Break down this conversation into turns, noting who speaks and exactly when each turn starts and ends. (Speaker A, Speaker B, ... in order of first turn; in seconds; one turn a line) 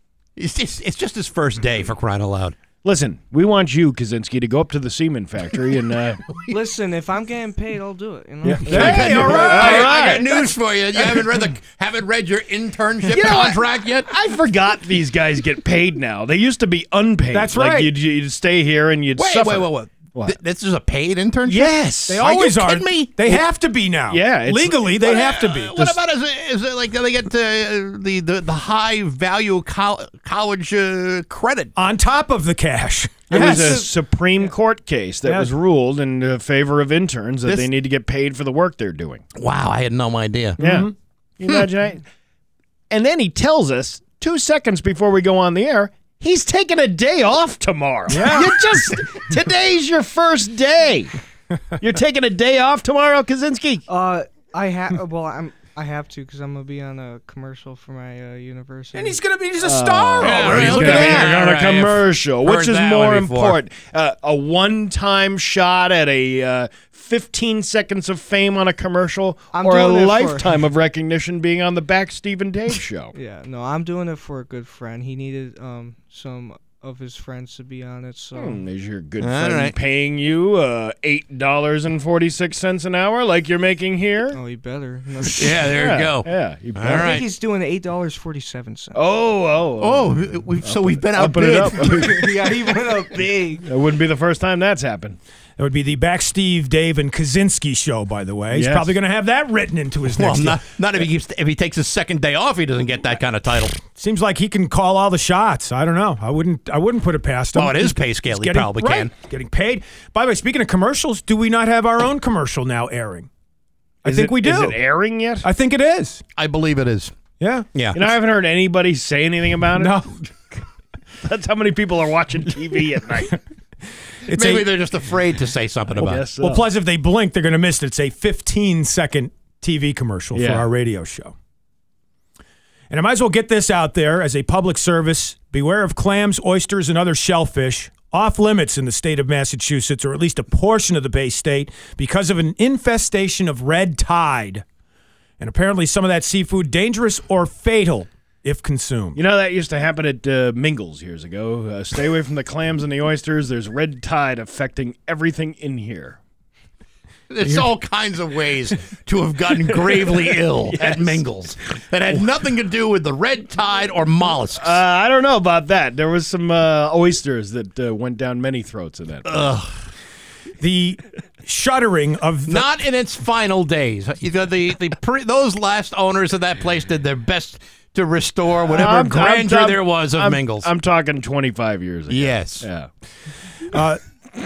Speaker A: 0.4-2.5
Speaker B: 2.8-6.2
Speaker C: 6.5-9.2
Speaker B: 8.4-10.5
Speaker D: 8.6-10.2
Speaker A: 8.7-14.1
Speaker B: 13.1-20.4
Speaker D: 17.3-17.9
Speaker A: 19.2-23.1
Speaker B: 21.4-22.2
Speaker D: 22.1-25.7
Speaker B: 24.1-25.2
Speaker A: 25.1-31.7
Speaker D: 31.8-33.9
Speaker B: 33.3-39.2
Speaker A: 37.5-37.7
Speaker A: 39.4-40.6
Speaker B: 40.6-42.0
Speaker D: 40.6-40.9
Speaker B: 42.9-51.1
Speaker D: 48.1-48.6
Speaker B: 51.8-53.9
Speaker C: 53.9-59.2
Speaker D: 58.9-61.4
Speaker B: 59.6-73.1
Speaker A: 60.2-63.6
Speaker C: 69.5-70.5
Speaker C: 73.1-78.6
Speaker B: 78.3-84.4
Speaker A: 79.2-79.8
Speaker C: 84.3-85.7
Speaker A: 85.3-87.3
Speaker B: 85.5-87.2
Speaker C: 86.9-89.0
Speaker B: 88.9-92.5
Speaker A: 89.8-92.4
Speaker C: 91.8-93.7
Speaker B: 93.6-95.2
Speaker D: 95.6-100.6
Speaker B: 98.5-99.0
Speaker A: 100.2-103.8
Speaker D: 103.9-113.3
Speaker A: 107.6-109.1
Speaker D: 114.0-114.8
Speaker B: 114.0-115.5
Speaker D: 115.4-116.2
Speaker A: 116.4-117.1
Speaker D: 117.4-117.7
Speaker A: 117.8-118.0
Speaker B: 117.9-120.0
Speaker D: 119.8-120.1
Speaker B: 121.2-123.4
Speaker D: 124.3-124.7
Speaker A: 124.3-126.2
Speaker B: 126.0-126.7
Speaker D: 126.4-131.3
Speaker B: 130.3-130.7
Speaker D: 132.9-144.6
Speaker D: 145.4-149.2
Speaker B: 149.2-156.2
Speaker A: 157.3-164.8
Speaker B: 159.8-161.2
Speaker B: 164.5-169.3
Speaker A: 169.2-169.8
Speaker D: 170.6-172.7
Speaker A: 172.5-180.7
Speaker B: 178.7-182.9
Speaker A: 182.1-182.7
Speaker D: 183.7-184.0